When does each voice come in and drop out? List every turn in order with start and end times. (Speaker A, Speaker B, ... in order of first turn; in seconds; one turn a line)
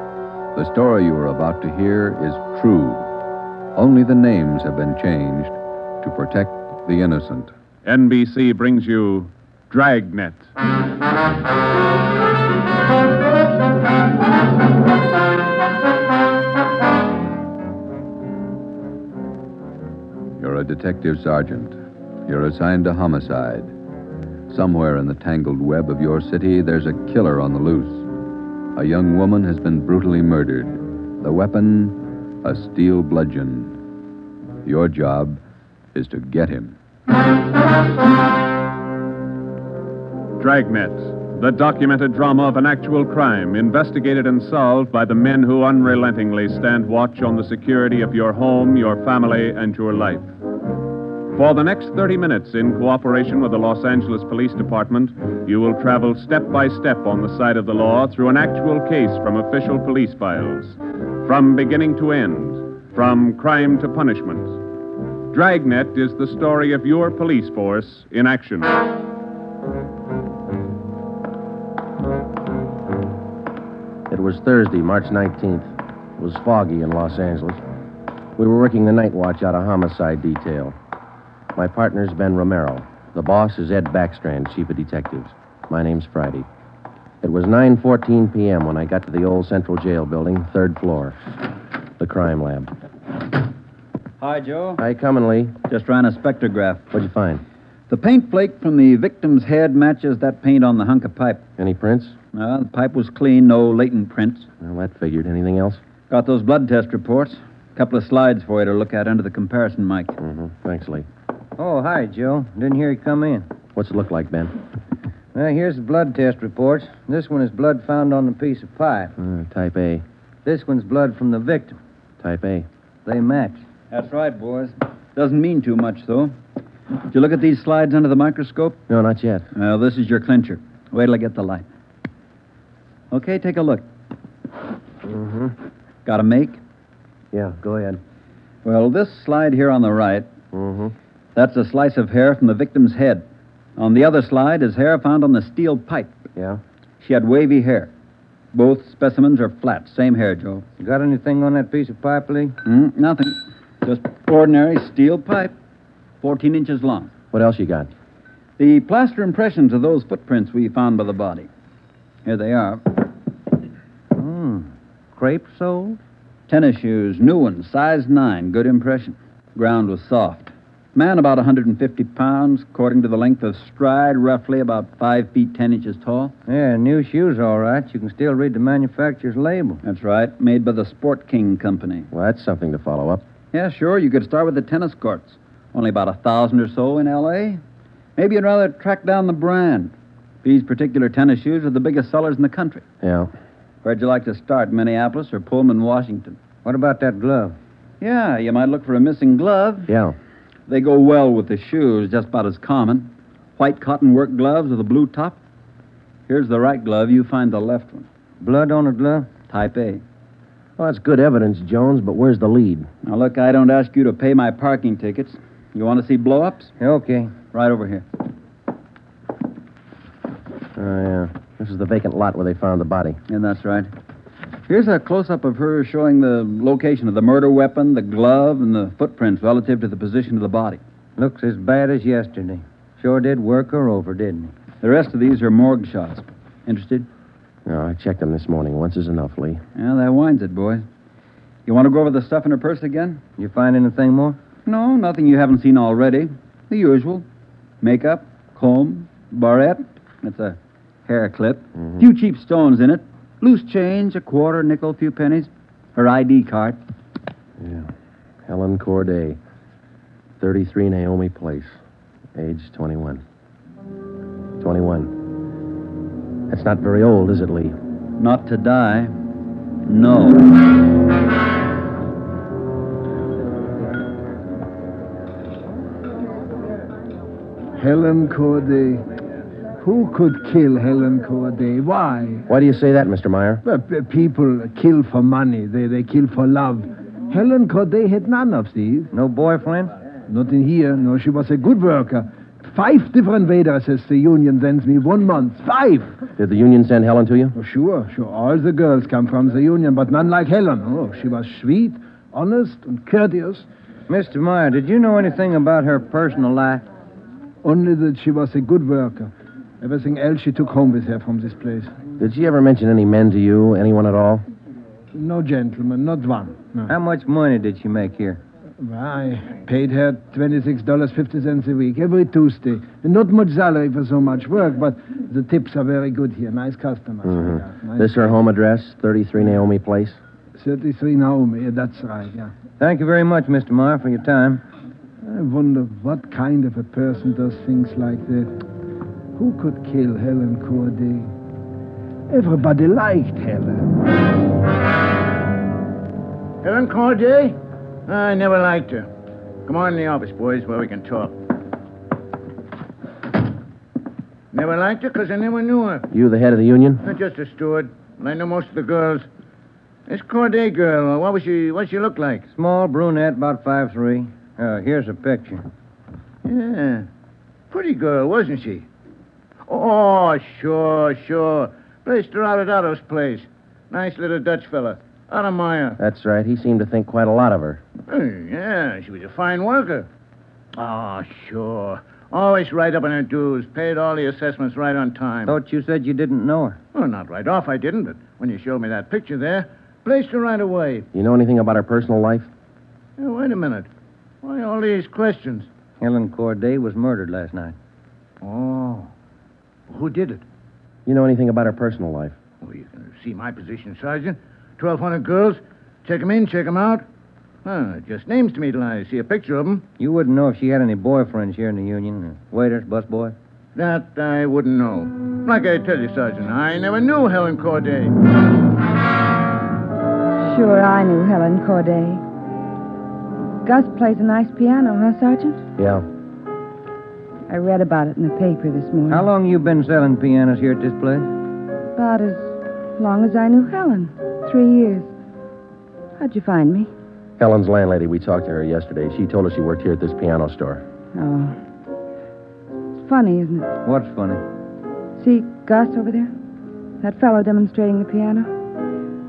Speaker A: 0.5-3.1
Speaker A: 3.7-7.5
Speaker B: 7.8-10.5
Speaker A: 20.4-23.7
Speaker A: 24.5-28.1
Speaker A: 28.7-33.8
Speaker A: 34.6-35.4
Speaker A: 35.9-36.8
Speaker B: 40.4-50.3
Speaker B: 51.3-64.6
Speaker B: 65.3-68.8
Speaker C: 74.1-77.6
Speaker C: 78.4-80.8
Speaker C: 81.5-86.5
Speaker C: 87.2-91.2
Speaker C: 92.0-92.7
Speaker D: 94.2-94.8
Speaker C: 94.8-95.5
Speaker D: 95.7-96.9
Speaker C: 96.9-97.4
Speaker D: 97.9-101.4
Speaker C: 101.6-102.2
Speaker D: 102.3-104.5
Speaker C: 104.6-105.8
Speaker D: 106.1-110.1
Speaker C: 110.2-111.0
Speaker E: 111.6-113.5
Speaker C: 113.8-114.5
Speaker E: 115.3-119.1
Speaker C: 119.2-120.0
Speaker E: 120.4-121.8
Speaker C: 122.2-122.7
Speaker E: 123.0-123.6
Speaker D: 123.9-126.3
Speaker D: 127.1-128.8
Speaker C: 128.9-129.4
Speaker D: 129.5-131.7
Speaker D: 133.1-133.8
Speaker C: 135.0-135.5
Speaker D: 136.0-136.6
Speaker C: 137.3-138.0
Speaker D: 138.6-140.3
Speaker C: 140.5-140.9
Speaker D: 141.3-143.2
Speaker D: 143.8-146.1
Speaker C: 146.3-146.6
Speaker D: 147.0-147.9
Speaker D: 148.5-150.6
Speaker E: 150.8-152.5
Speaker D: 152.6-155.5
Speaker D: 156.2-157.1
Speaker C: 157.3-157.9
Speaker D: 158.6-161.5
Speaker D: 162.2-162.8
Speaker E: 164.2-166.0
Speaker D: 166.5-176.3
Speaker E: 176.5-179.8
Speaker D: 179.8-182.1
Speaker C: 182.1-183.2
Speaker D: 183.5-187.6
Speaker D: 188.2-189.9
Speaker D: 190.4-192.8
Speaker C: 193.0-193.3
Speaker D: 193.8-196.4
Speaker E: 196.6-197.6
Speaker D: 198.0-199.9
Speaker C: 199.9-200.1
Speaker D: 200.7-205.4
Speaker D: 206.3-208.1
Speaker E: 208.4-209.3
Speaker D: 209.5-210.0
Speaker C: 210.8-212.9
Speaker D: 213.0-216.7
Speaker E: 216.8-217.3
Speaker D: 217.5-218.0
Speaker C: 220.7-223.2
Speaker D: 223.3-223.9
Speaker D: 224.7-230.8
Speaker E: 231.2-234.5
Speaker D: 234.8-237.1
Speaker C: 237.7-239.6
Speaker D: 239.8-240.8
Speaker D: 241.7-243.2
Speaker E: 243.4-244.4
Speaker D: 244.7-247.2
Speaker D: 247.8-256.8
Speaker C: 257.6-257.9
Speaker C: 258.4-259.4
Speaker C: 260.4-261.8
Speaker C: 262.3-263.2
Speaker C: 264.6-265.1
Speaker C: 266.5-267.7
Speaker D: 268.2-269.1
Speaker D: 269.9-270.5
Speaker F: 277.8-279.0
Speaker F: 279.8-282.4
Speaker C: 282.5-283.6
Speaker F: 283.6-289.1
Speaker E: 289.1-289.9
Speaker F: 290.3-296.1
Speaker C: 296.4-297.5
Speaker F: 297.5-303.6
Speaker E: 304.1-306.9
Speaker F: 307.6-311.9
Speaker C: 312.2-314.4
Speaker F: 315.1-316.9
Speaker E: 316.9-318.4
Speaker F: 318.8-328.3
Speaker C: 327.2-330.2
Speaker F: 330.6-332.5
Speaker E: 332.8-334.6
Speaker F: 335.2-338.5
Speaker F: 339.4-341.3
Speaker F: 342.3-343.9
Speaker G: 346.6-349.1
Speaker G: 349.6-351.4
Speaker G: 354.5-356.1
Speaker C: 356.1-357.0
Speaker G: 357.0-359.3
Speaker G: 360.1-362.4
Speaker E: 362.5-365.6
Speaker G: 366.4-367.1
Speaker G: 367.7-368.9
Speaker G: 369.7-376.0
Speaker C: 376.0-377.8
Speaker G: 378.1-380.1
Speaker G: 380.8-385.5
Speaker E: 385.4-386.8
Speaker G: 386.9-391.1
Speaker C: 391.1-392.5
Speaker G: 393.2-393.9
Speaker G: 394.4-395.7
Speaker E: 396.0-397.8
Speaker G: 398.4-399.1
Speaker G: 399.9-400.4
Speaker C: 401.1-402.4
Speaker G: 402.6-407.0
Speaker G: 407.6-409.8
Speaker E: 410.0-413.3
Speaker G: 413.8-418.1
Speaker H: 420.4-422.2
Speaker H: 423.6-425.6
Speaker C: 425.8-426.0
Speaker H: 427.5-429.3
Speaker E: 429.1-431.3
Speaker H: 431.9-435.1
Speaker H: 436.2-436.9
Speaker C: 437.4-440.8
Speaker H: 441.1-441.6
Speaker H: 443.0-443.7
Speaker E: 443.8-444.4
Speaker H: 445.2-446.3
Speaker H: 447.0-448.5